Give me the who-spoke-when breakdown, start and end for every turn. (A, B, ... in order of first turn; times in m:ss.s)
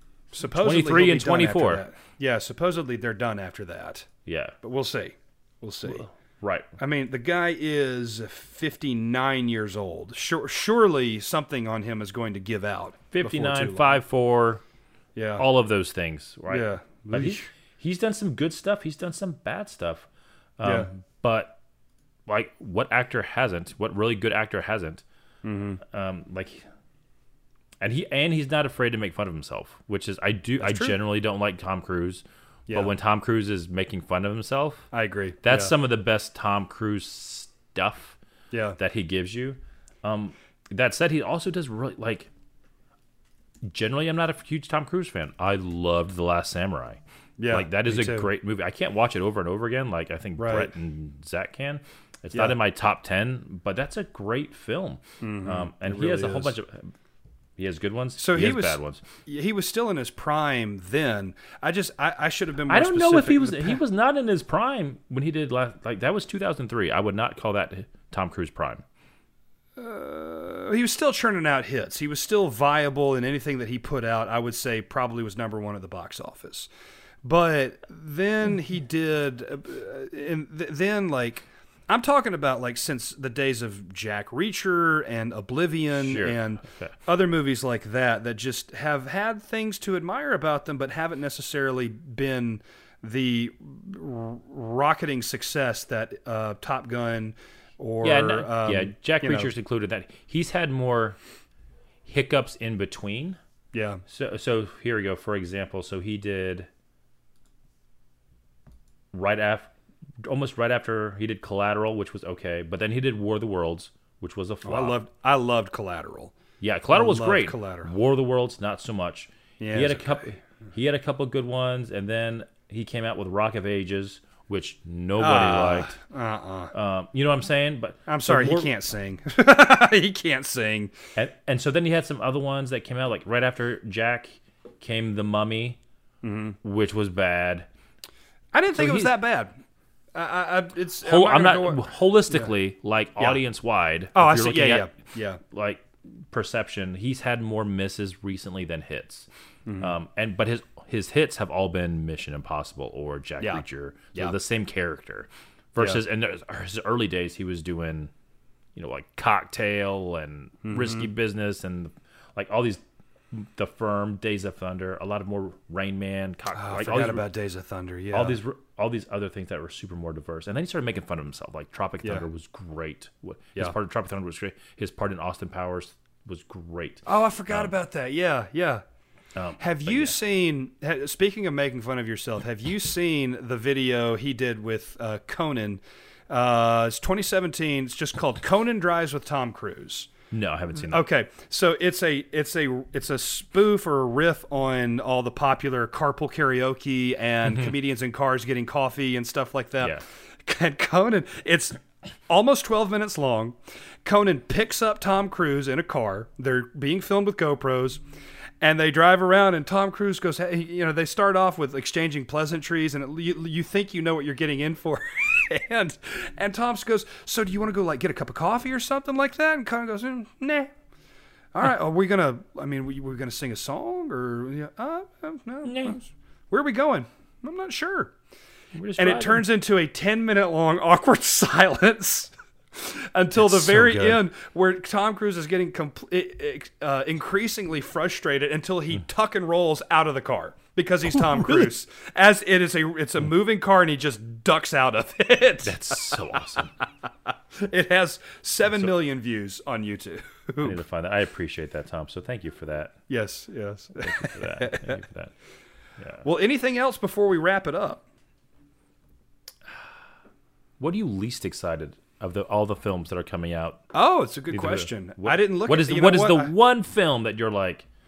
0:00.3-0:04.1 A
0:00.5-0:01.8 B
0:04.3-0:04.6 B
0:04.6-0:06.0 A
0:05.8-0:06.7 B
0:06.8-0:14.0 A
0:13.1-0:14.6 B
0:15.2-0:15.4 A
0:15.4-0:20.1 B
0:16.5-0:17.5 A
0:20.6-0:21.6 B
0:20.6-0:20.9 A
0:22.3-0:25.0 B
0:25.4-0:25.8 A
0:25.8-0:26.6 B
0:27.8-0:34.9 B
0:30.6-0:31.0 A
0:34.9-0:35.7 A
0:35.4-0:38.2 B
0:38.5-0:38.8 A
0:38.8-0:42.3 B
0:43.6-0:47.0 B
0:47.4-0:48.3 A
0:47.5-0:56.9 B
0:50.4-0:50.7 A
0:55.2-0:56.5 A
0:57.6-0:59.0 B
0:58.2-1:03.8 A
1:02.7-1:08.8 B
1:09.8-1:16.7 A
1:17.2-1:39.5 A
1:26.0-1:26.9 B
1:38.0-1:41.2 B
1:42.0-1:43.4 B
1:43.7-1:44.0 A
1:44.1-1:46.7 B
1:49.1-1:49.7 B
1:50.2-1:55.0 B
1:54.6-1:56.3 A
1:56.6-2:05.9 B
1:56.9-1:57.9 A
1:59.6-2:00.4 A
2:05.2-2:06.7 A
2:06.7-2:08.7 B
2:08.1-2:10.9 A
2:11.1-2:15.8 B
2:16.2-2:16.6 A
2:16.6-2:17.7 B
2:18.5-2:19.6 A
2:18.7-2:19.2 B
2:20.1-2:22.5 A
2:21.0-2:24.9 B
2:24.1-2:25.4 A
2:25.5-2:29.3 B
2:29.6-2:29.9 A
2:29.8-2:38.1 B
2:38.7-2:47.3 B
2:40.6-2:41.1 A
2:46.5-2:48.4 A
2:48.1-2:57.7 B
2:57.0-2:58.8 A
2:59.3-3:00.2 B
2:59.6-3:10.1 A
3:10.3-3:11.0 B
3:10.8-3:28.0 A
3:17.4-3:17.7 B
3:28.6-3:40.7 A
3:41.5-3:48.1 A
3:45.6-3:46.0 B
3:48.7-3:49.5 B
3:49.0-4:06.8 A
3:53.4-3:54.2 B
4:01.1-4:01.7 B
4:05.6-4:06.7 B
4:07.6-4:10.8 A
4:10.6-4:12.9 B
4:13.1-4:14.9 A
4:14.0-4:15.3 B
4:16.0-4:16.2 B
4:16.2-4:18.0 A
4:20.8-4:23.8 B
4:23.9-4:26.5 A
4:24.5-4:27.9 B